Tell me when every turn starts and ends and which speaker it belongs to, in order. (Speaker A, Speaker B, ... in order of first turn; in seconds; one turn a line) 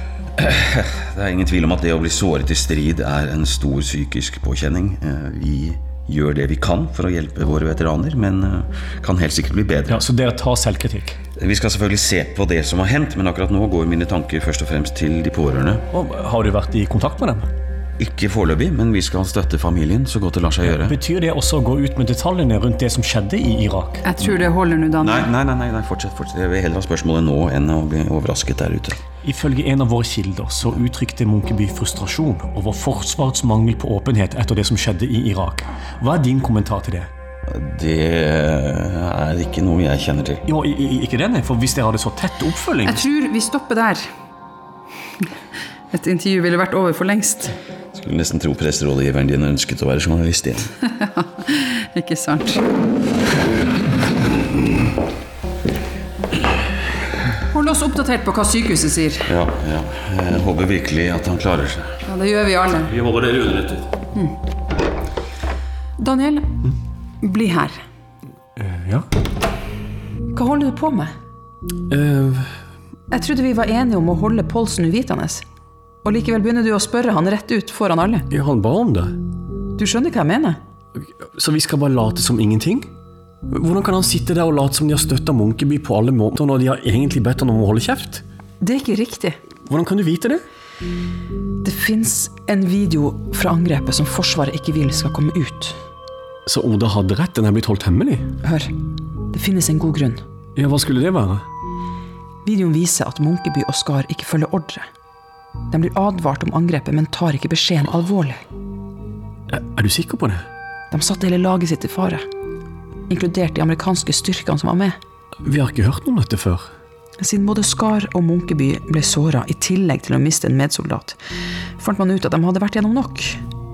Speaker A: 0.4-10.0
Speaker B: 9.9-11.2
Speaker A: 11.4-15.8
Speaker B: 15.9-17.5
Speaker A: 18.0-21.0
Speaker B: 20.7-24.0
Speaker C: 24.0-25.3
Speaker A: 24.2-24.5
Speaker A: 25.0-29.0
Speaker B: 29.2-37.1
Speaker A: 37.5-40.4
Speaker B: 40.5-43.0
Speaker C: 42.8-44.1
Speaker C: 45.9-47.5
Speaker A: 47.9-50.7
Speaker C: 51.0-52.6
Speaker C: 57.5-59.3
Speaker A: 59.2-61.9
Speaker C: 62.0-62.9
Speaker A: 63.1-63.7
Speaker C: 66.0-66.5
Speaker C: 67.2-67.8
Speaker B: 68.6-69.0
Speaker C: 70.3-71.1
Speaker B: 71.9-72.5
Speaker C: 73.1-75.4
Speaker C: 76.0-78.3
Speaker B: 78.3-79.1
Speaker C: 79.8-80.6
Speaker B: 81.0-82.9
Speaker B: 83.5-88.2
Speaker C: 88.6-89.4
Speaker B: 89.7-90.4
Speaker C: 91.6-95.8
Speaker B: 96.5-98.3
Speaker C: 98.4-98.7
Speaker C: 99.3-100.2
Speaker B: 100.5-101.4
Speaker C: 102.4-104.8
Speaker C: 105.7-108.4
Speaker B: 109.5-110.4
Speaker C: 110.9-112.2
Speaker C: 113.1-115.0
Speaker B: 115.4-116.7
Speaker C: 117.2-121.2
Speaker C: 121.8-123.4